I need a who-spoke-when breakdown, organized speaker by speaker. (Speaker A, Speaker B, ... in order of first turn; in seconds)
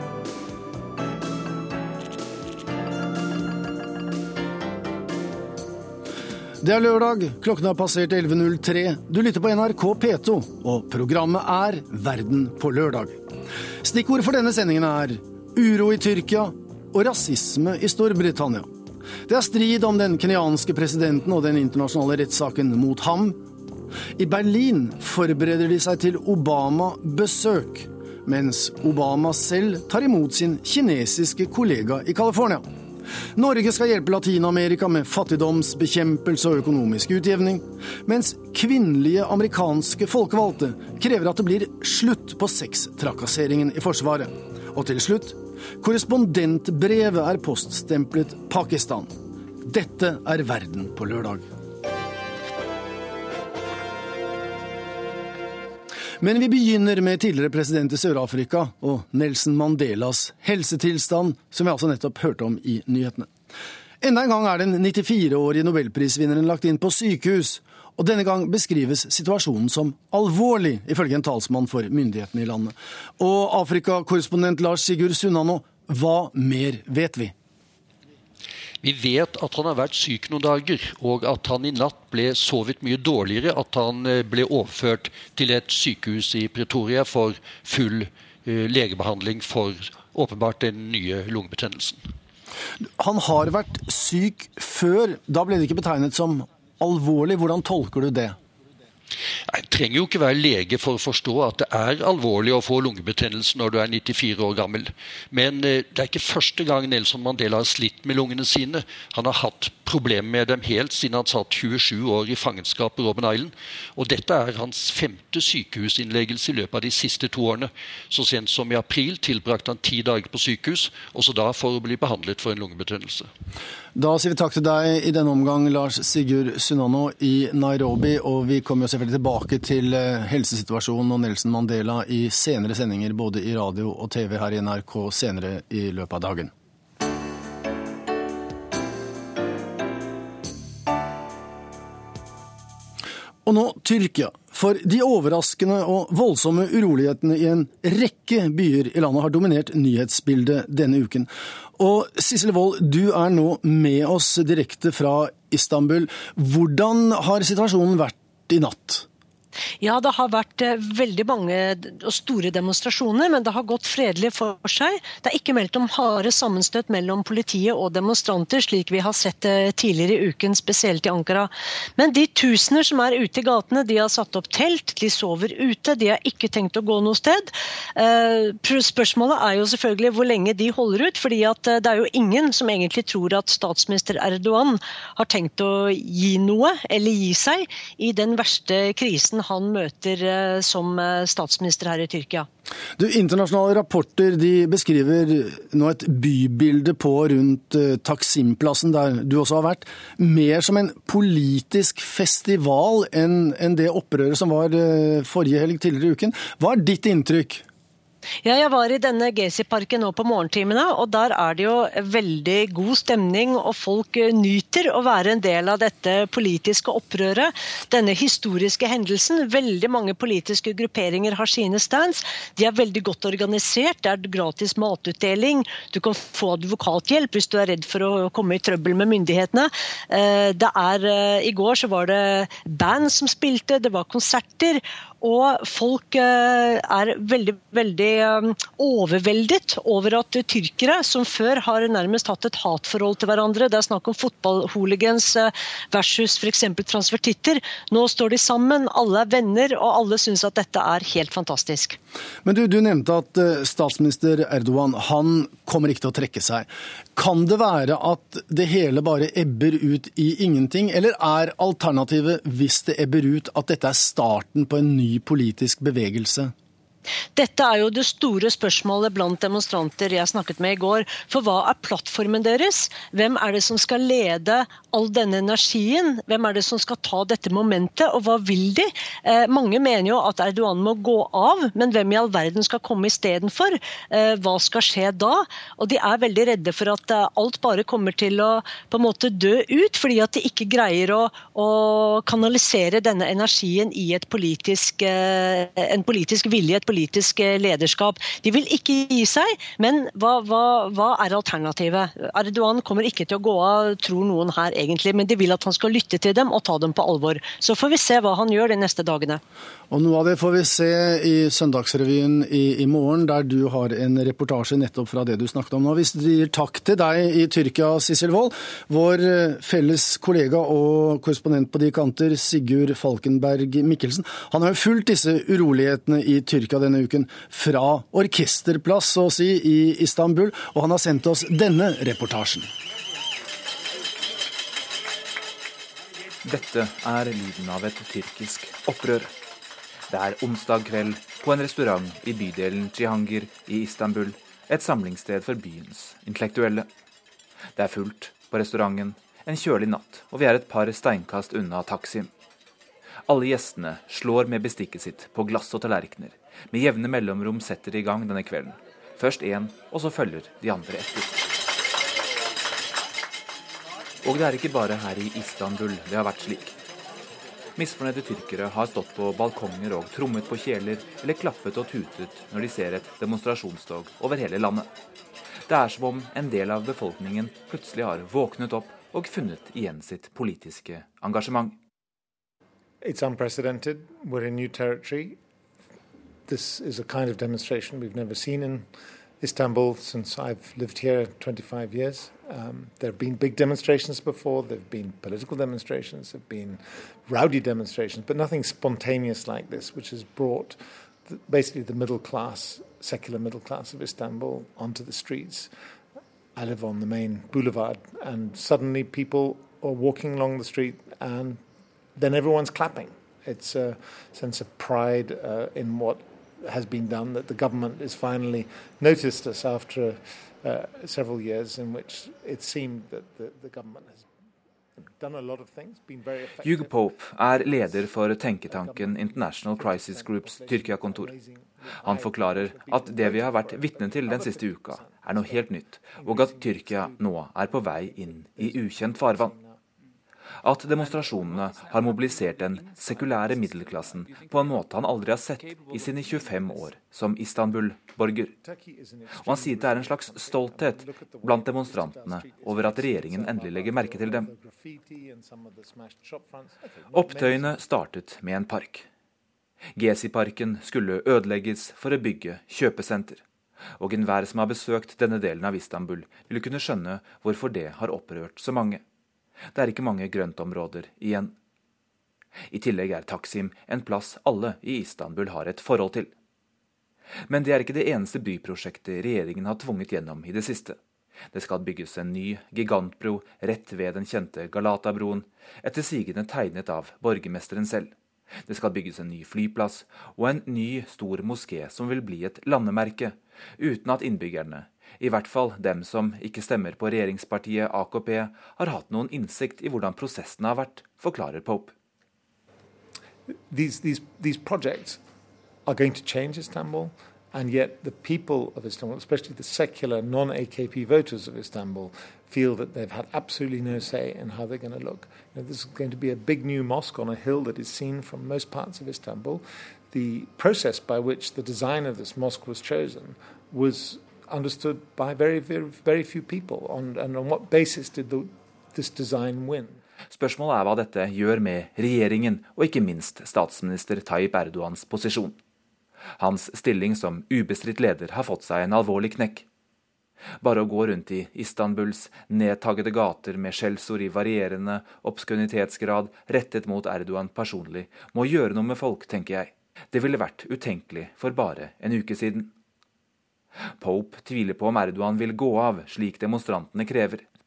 Speaker A: 6.6-13.2, 13.8-18.7, 19.2-23.4, 24.2-32.6, 33.4-51.4, 56.2-63.3, 64.0-77.3, 93.0-98.3, 124.0-136.5, 143.4-159.1, 193.0-207.7, 252.4-266.5, 309.9-332.7
Speaker B: 78.8-92.0, 99.5-123.3
Speaker C: 159.8-192.5, 208.4-252.0, 267.4-309.4
Speaker D: 336.4-339.3, 340.1-346.9, 347.8-352.3, 353.3-361.4, 364.2-366.8, 367.8-374.9, 375.6-381.8, 426.6-431.3, 432.0-439.5, 440.6-448.6, 449.4-454.5, 457.1-459.1, 459.9-463.4, 464.0-469.0, 469.7-471.5, 472.7-476.3, 477.5-481.0, 481.5-488.1, 488.7-501.9, 530.3-535.5, 536.4-539.6, 540.6-552.7, 554.0-557.5
Speaker E: 383.0-385.4, 386.5-388.9, 389.4-405.7, 406.5-411.6, 412.1-424.2, 425.1-427.0, 427.5-427.9, 428.6-435.6, 436.1-437.2, 438.0-439.8, 448.6-457.7, 503.7-505.2, 505.9-530.0